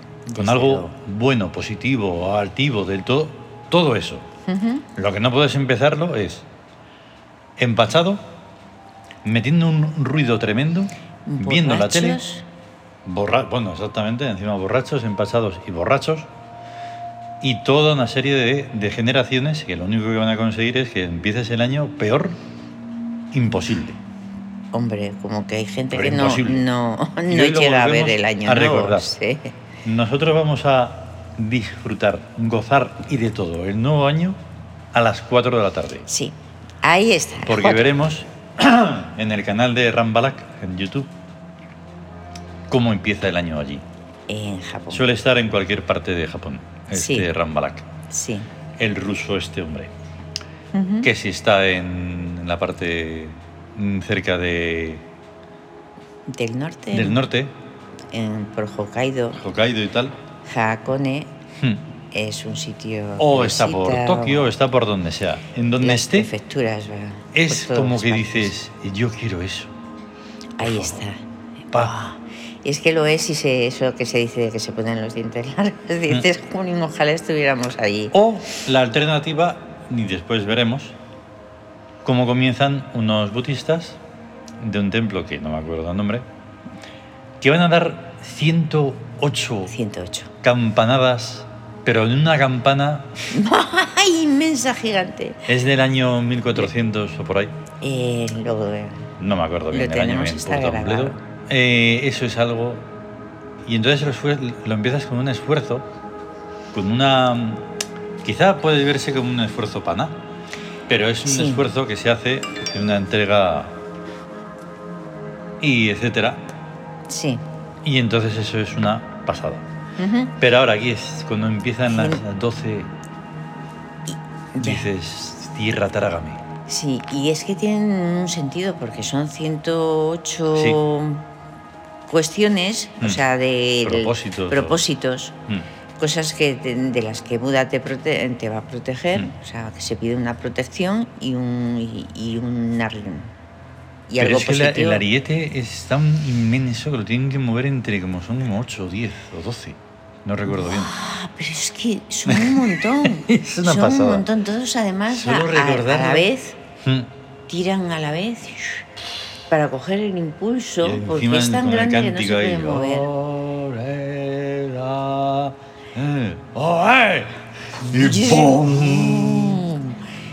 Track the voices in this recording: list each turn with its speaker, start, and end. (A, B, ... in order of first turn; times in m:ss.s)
0:00.3-0:00.9 A
0:00.4-0:04.3 B
0:04.5-0:04.8 A
0:04.9-0:06.4 B
0:07.6-0:08.2 B
0:09.2-0:12.2 B
0:11.2-0:12.4 A
0:13.0-0:16.3 B
0:17.4-0:22.4 B
0:23.3-0:24.0 B
0:24.7-0:29.5 A
0:25.9-0:26.7 B
0:27.3-0:29.1 B
0:29.8-0:34.4 B
0:34.9-0:36.1 B
0:36.1-0:37.9 A
0:37.4-0:41.1 B
0:42.7-0:43.8 B
0:44.3-0:45.1 A
0:44.9-0:47.9 B
0:46.9-0:47.3 A
0:48.1-0:48.5 A
0:48.8-0:49.9 B
0:50.7-0:51.1 A
0:51.0-0:55.0 B
0:56.3-0:57.2 A
0:56.9-0:57.5 B
0:58.1-0:59.4 A
0:59.4-1:00.1 B
1:00.4-1:01.3 A
1:02.1-1:04.5 A
1:03.2-1:06.3 B
1:05.8-1:08.5 A
1:07.3-1:09.7 B
1:10.6-1:18.1 A
1:10.6-1:11.0 B
1:11.7-1:12.0 B
1:18.1-1:20.9 B
1:22.0-1:24.0 B
1:24.6-1:26.2 B
1:27.4-1:29.7 B
1:29.7-1:30.3 A
1:30.4-1:33.2 B
1:33.3-1:35.5 A
1:35.5-1:37.5 B
1:37.8-1:39.1 A
1:39.2-1:42.9 B
1:39.7-1:41.2 A
1:43.6-1:45.8 B
1:46.7-1:47.7 B
1:48.2-1:50.2 B
1:50.9-1:53.8 B
1:51.2-1:51.6 A
1:55.6-1:56.4 B
1:57.1-1:57.4 A
1:57.8-1:59.6 B
2:00.0-2:00.3 A
2:00.4-2:02.9 B
2:01.9-2:02.2 A
2:04.1-2:04.9 A
2:04.5-2:06.4 B
2:06.7-2:11.2 A
2:10.5-2:10.8 B
2:12.1-2:15.3 A
2:13.8-2:14.8 B
2:16.0-2:23.3 A
2:24.1-2:25.0 A
2:24.2-2:30.9 B
2:30.5-2:36.6 A
2:32.3-2:34.3 B
2:35.1-2:36.3 B
2:36.8-2:37.1 B
2:37.5-2:38.8 A
2:39.5-2:43.1 A
2:40.8-2:49.7 B
2:47.8-2:49.9 A